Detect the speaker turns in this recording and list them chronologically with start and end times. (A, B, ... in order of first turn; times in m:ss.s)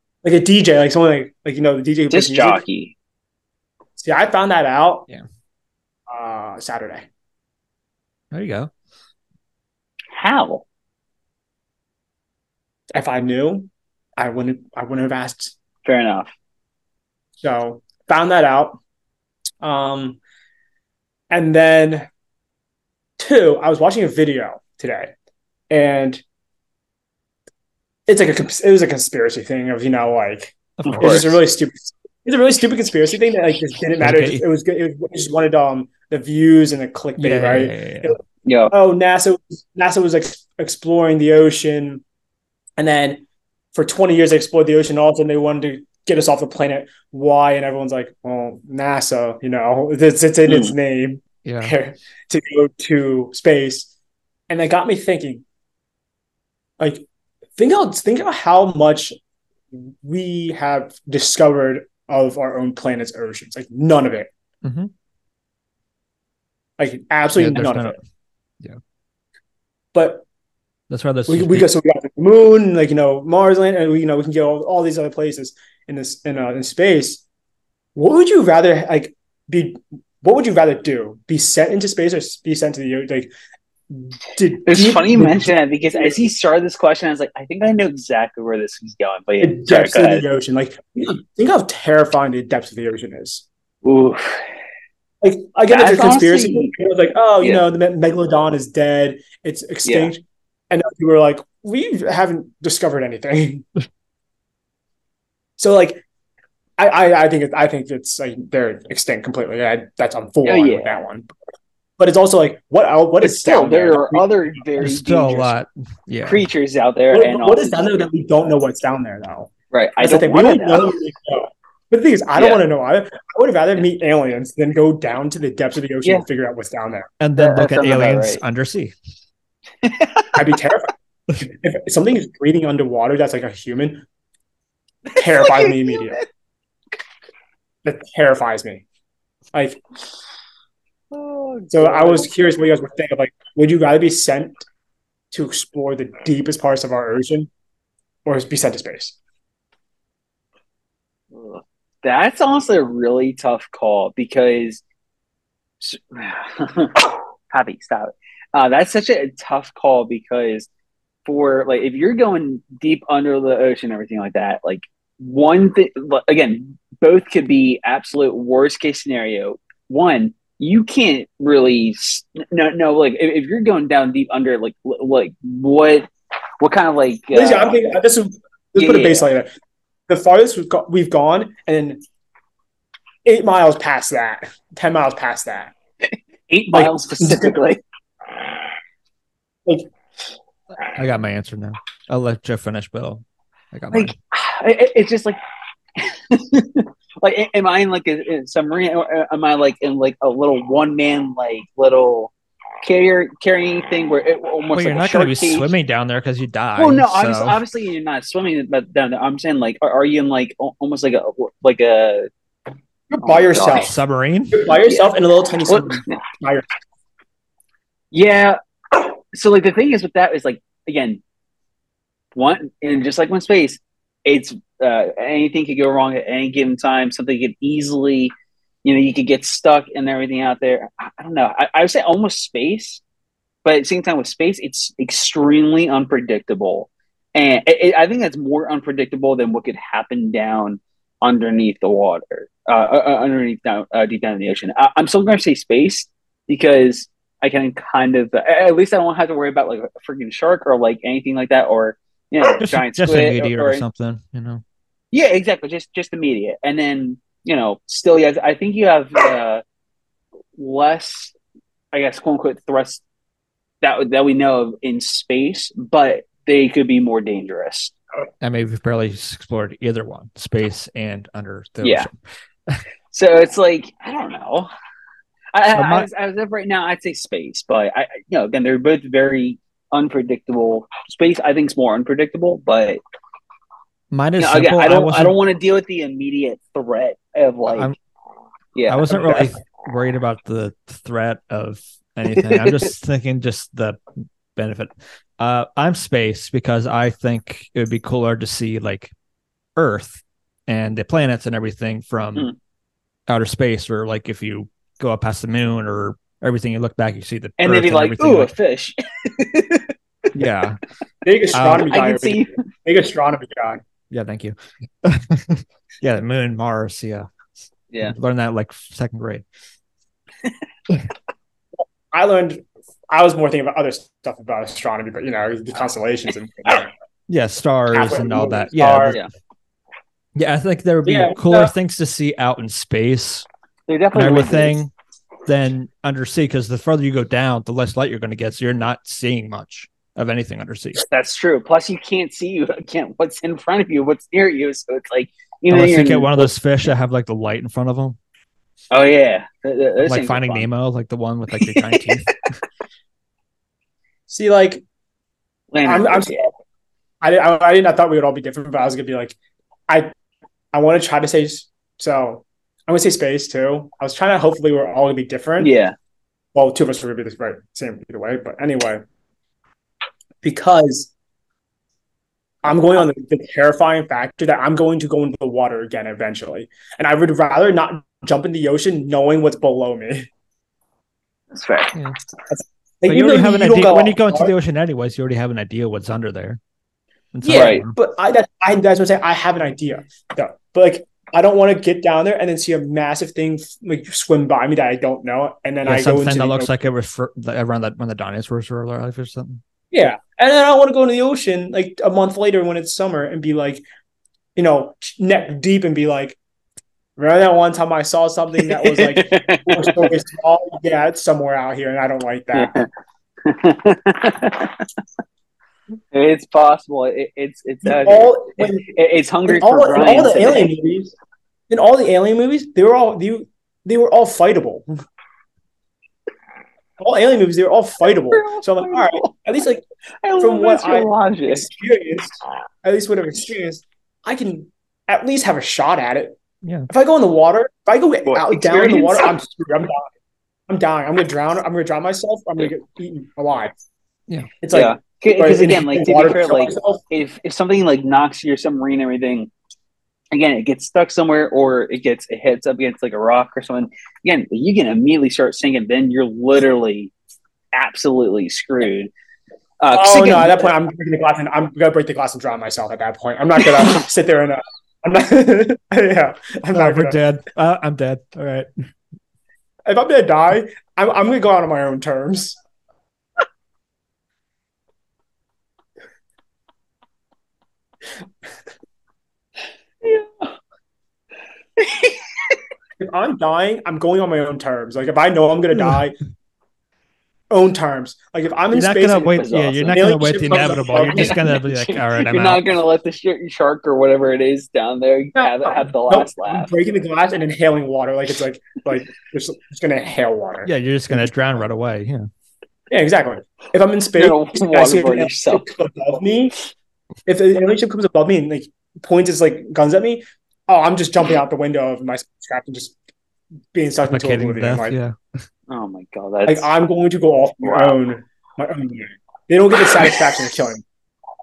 0:00.2-0:02.6 A
0:02.1-0:02.9 B
0:04.0-0:05.1 A
0:06.1-0:07.1 A
0:08.3-0:08.7 C
0:10.1-0:10.6 B
0:12.9-0:15.5 A
0:15.8-0:16.3 B
0:17.4-0:18.8 A
0:19.6-0:20.2 A
0:21.3-0:22.1 A
0:23.2-0:25.1 A
0:25.7-0:26.2 A
0:28.1-0:38.2 A
0:30.8-0:31.3 C
0:30.9-0:31.4 B
0:34.0-0:34.4 C
0:37.2-0:38.2 C
0:38.5-0:38.7 B
0:38.7-0:42.0 A
0:42.8-0:43.2 A
0:43.7-0:53.9 A
0:50.5-0:50.7 B
0:51.4-0:51.8 C
0:54.5-0:55.4 A
0:56.8-0:57.0 A
0:57.6-0:59.2 A
0:59.7-1:04.3 A
1:04.6-1:04.9 C
1:06.8-1:08.0 A
1:07.4-1:08.0 C
1:09.9-1:10.2 A
1:10.9-1:11.7 C
1:11.3-1:17.2 A
1:18.0-1:23.3 A
1:23.9-1:26.2 A
1:24.7-1:30.3 B
1:29.4-1:33.4 A
1:33.8-1:34.4 B
1:35.2-1:43.7 A
1:35.7-1:36.7 B
1:39.8-1:40.1 B
1:45.6-1:46.0 A
1:46.8-1:51.3 A
1:50.4-1:51.0 B
1:52.0-1:54.3 A
1:53.2-1:55.6 B
1:54.8-1:56.4 C
1:56.2-1:57.9 B
1:57.1-2:07.1 A
1:59.7-2:00.9 B
2:02.4-2:02.6 B
2:07.2-2:08.9 C
2:07.4-2:08.4 B
2:09.8-2:10.5 B
2:10.4-2:14.0 A
2:15.1-2:16.2 B
2:15.2-2:16.2 A
2:17.8-2:18.8 A
2:19.5-2:19.8 A
2:21.1-2:22.3 B
2:21.7-2:24.7 A
2:25.3-2:27.5 A
2:28.2-2:29.2 A
2:31.3-2:34.8 B
2:35.8-2:40.7 B
2:41.3-2:56.1 B
2:56.6-2:57.8 B
2:57.3-2:59.5 A
2:58.8-2:59.3 B
3:00.1-3:02.0 A
3:03.2-3:05.7 A
3:06.5-3:07.8 B
3:06.7-3:07.6 A
3:10.9-3:14.2 C
3:13.9-3:15.4 B
3:16.0-3:25.7 B
3:24.7-3:27.6 C
3:26.8-3:32.3 B
3:33.1-3:33.9 A
3:33.2-3:33.9 B
3:33.7-3:34.6 C
3:34.5-3:36.7 A
3:34.7-3:35.1 B
3:35.7-3:36.2 B
3:38.1-3:41.2 B
3:42.4-3:48.3 B
3:48.8-3:53.0 B
3:53.6-4:13.8 B
4:12.6-4:14.6 C
4:15.1-4:19.6 B
4:20.6-4:21.4 B
4:21.9-4:23.0 B
4:23.8-4:28.0 B
4:28.4-4:32.1 C
4:31.8-4:32.1 B
4:33.1-4:34.7 B
4:35.5-4:43.0 B
4:35.7-4:36.1 C
4:44.1-4:45.4 C
4:44.4-4:47.9 B
4:47.7-4:48.0 C
4:48.8-4:49.5 B
4:48.9-4:54.0 C
4:52.4-4:52.9 B
4:54.6-4:59.1 C
4:59.8-5:02.5 C
5:03.3-5:08.5 C
5:07.6-5:09.9 B
5:10.3-5:10.8 C
5:11.2-5:13.8 A
5:11.5-5:11.9 C
5:11.8-5:12.6 B
5:14.1-5:19.4 C
5:22.1-5:26.9 A
5:27.3-5:29.2 C
5:27.9-5:29.2 A
5:30.4-5:33.5 C
5:31.0-5:31.7 A
5:33.9-5:34.8 B
5:34.1-5:34.9 C
5:35.5-5:41.0 C
5:41.0-5:46.5 B
5:45.7-5:48.2 C
5:48.9-5:50.7 B
5:50.0-5:52.4 C
5:51.6-5:52.1 B
5:54.3-5:54.8 A
5:55.7-5:56.5 B
5:55.8-5:56.5 A
5:57.2-5:59.4 A
6:00.7-6:05.7 A
6:05.6-6:06.0 B
6:06.6-6:09.0 A
6:10.4-6:11.1 A
6:12.6-6:20.3 A
6:21.5-6:22.0 B
6:22.5-6:24.5 A
6:23.0-6:26.6 C
6:27.3-6:28.0 C
6:27.4-6:36.7 A
6:27.5-6:27.8 B
6:35.8-6:39.6 C
6:39.9-6:43.8 A
6:44.6-6:46.4 A
6:47.2-6:52.8 A
6:48.6-6:50.1 B
6:52.5-6:52.9 B
6:53.4-6:55.0 B
6:56.1-7:00.7 B
6:57.8-6:58.9 A
6:59.5-7:01.1 A
7:01.7-7:04.9 A
7:07.0-7:09.8 A
7:08.3-7:09.3 B
7:10.2-7:11.7 B
7:10.4-7:16.4 A
7:16.9-7:20.1 A
7:18.3-7:19.3 B
7:20.7-7:23.7 A
7:24.6-7:27.0 A
7:24.7-7:29.5 B
7:30.3-7:37.1 B
7:37.7-7:39.1 B
7:39.8-7:40.7 B
7:39.9-7:47.2 A
7:46.7-7:48.7 C
7:49.9-7:52.6 A
8:00.0-8:00.5 B
8:01.8-8:02.6 B
8:03.0-8:06.2 A
8:07.5-8:11.4 A
8:08.7-8:12.6 C
8:09.2-8:16.7 B
8:15.4-8:21.3 A
8:20.6-8:22.2 C
8:22.9-8:26.6 A
8:24.2-8:25.6 B
8:27.3-8:33.0 A
8:33.7-8:35.0 A
8:34.1-8:35.2 C
8:35.7-8:36.7 B
8:36.5-8:40.8 A
8:37.6-8:38.0 B